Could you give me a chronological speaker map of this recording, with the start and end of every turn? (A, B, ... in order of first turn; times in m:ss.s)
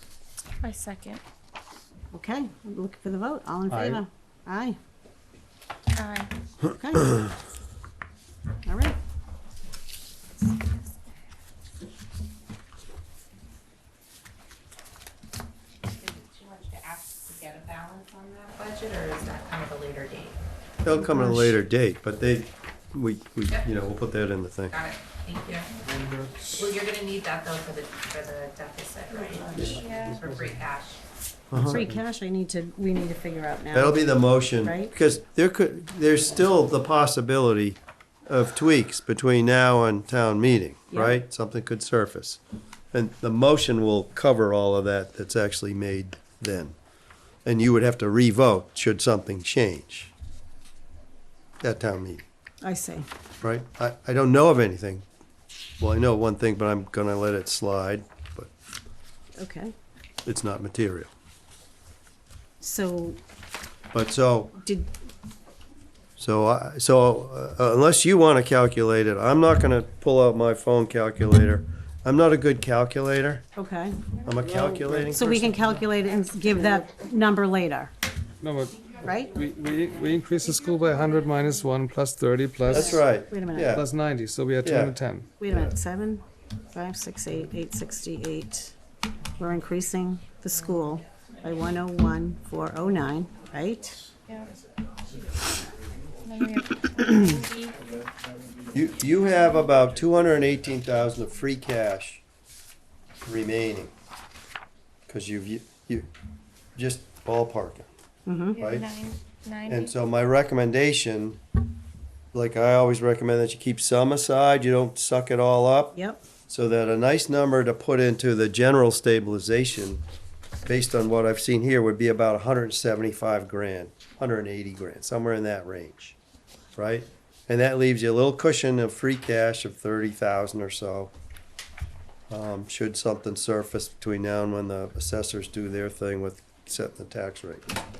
0:00.6-0:01.2 A
0:02.1-0:04.8 B
0:03.7-0:04.0 C
0:05.9-0:06.3 A
0:06.7-0:07.3 B
0:08.6-0:09.0 B
0:15.9-0:20.4 D
0:20.8-0:24.8 E
0:20.9-0:21.6 B
0:24.7-0:25.7 D
0:26.0-0:26.2 E
0:26.5-0:31.0 D
0:29.1-0:29.8 B
0:29.6-0:30.2 A
0:31.5-0:31.9 E
0:31.6-0:34.9 B
0:33.7-0:42.4 E
0:40.9-0:41.2 B
0:42.9-0:46.8 E
0:47.4-0:50.1 E
0:51.6-0:52.2 E
0:52.6-0:53.1 B
0:53.4-0:55.0 E
0:55.8-0:58.5 E
0:59.4-0:59.7 B
1:00.2-1:01.1 E
1:02.6-1:03.2 B
1:03.9-1:04.6 E
1:04.6-1:04.9 B
1:06.2-1:13.4 E
1:13.6-1:14.0 B
1:14.2-1:15.5 E
1:14.7-1:15.0 C
1:15.0-1:17.9 B
1:18.4-1:23.0 C
1:19.0-1:19.3 B
1:22.7-1:23.8 E
1:22.7-1:23.8 B
1:23.6-1:25.3 C
1:24.6-1:24.9 E
1:25.4-1:28.7 B
1:29.4-1:34.0 B
1:36.2-1:37.8 A
1:38.7-1:42.2 E
1:43.2-1:43.9 E
1:45.1-1:46.1 E
1:46.8-1:47.9 E
1:48.2-1:48.6 B
1:48.5-1:49.9 A
1:48.6-1:49.0 E
1:49.7-1:51.4 E
1:52.3-1:56.0 E
1:55.9-1:56.2 B
1:56.5-2:00.0 E
2:00.6-2:06.2 E
2:06.8-2:11.1 E
2:12.3-2:17.6 E